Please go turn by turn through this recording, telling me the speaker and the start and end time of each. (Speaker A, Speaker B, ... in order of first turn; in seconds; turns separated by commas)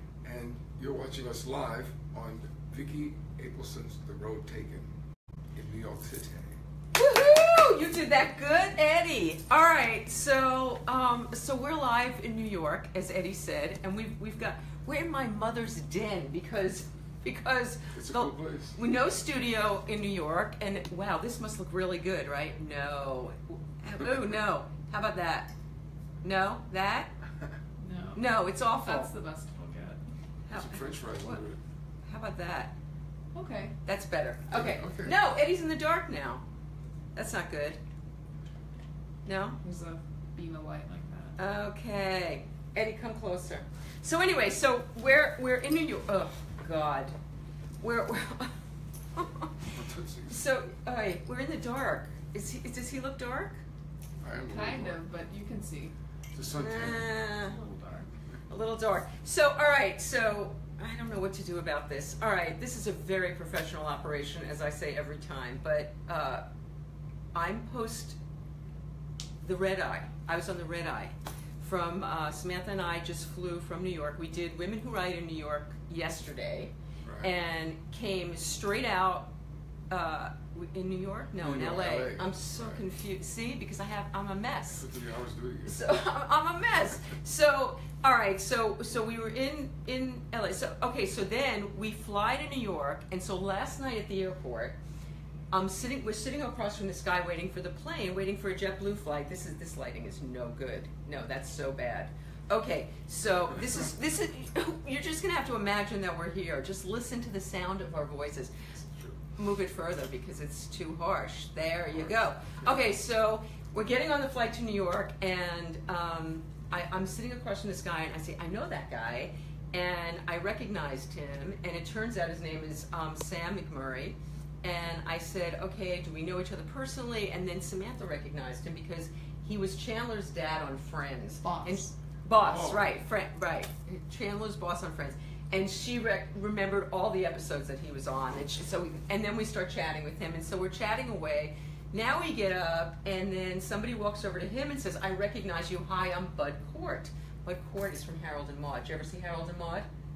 Speaker A: 0.2-4.9, Speaker A: 5.5-6.6, Speaker B: 6.9-25.5, Speaker A: 17.9-18.8, Speaker B: 26.2-27.1, Speaker C: 27.8-30.0, Speaker B: 28.1-29.1, Speaker B: 30.5-31.4, Speaker A: 30.5-31.6, Speaker B: 32.0-32.8, Speaker C: 33.3-33.8, Speaker B: 33.9-36.4, Speaker A: 34.5-35.2, Speaker B: 37.1-37.8, Speaker B: 39.2-39.6, Speaker C: 39.6-41.4, Speaker B: 41.4-47.2, Speaker B: 47.8-48.5, Speaker B: 49.1-49.5, Speaker A: 49.7-50.4, Speaker B: 50.3-53.6, Speaker A: 54.2-55.0, Speaker C: 54.5-56.0, Speaker A: 56.4-57.1, Speaker B: 56.5-57.6, Speaker C: 57.7-58.0, Speaker B: 58.5-66.5, Speaker B: 67.3-68.2, Speaker B: 69.4-79.3, Speaker A: 77.0-77.3, Speaker B: 79.9-84.8, Speaker A: 81.4-82.8, Speaker A: 84.7-85.8, Speaker B: 85.7-94.8, Speaker B: 95.5-108.5, Speaker B: 109.4-149.9, Speaker C: 131.4-131.8, Speaker A: 132.4-132.9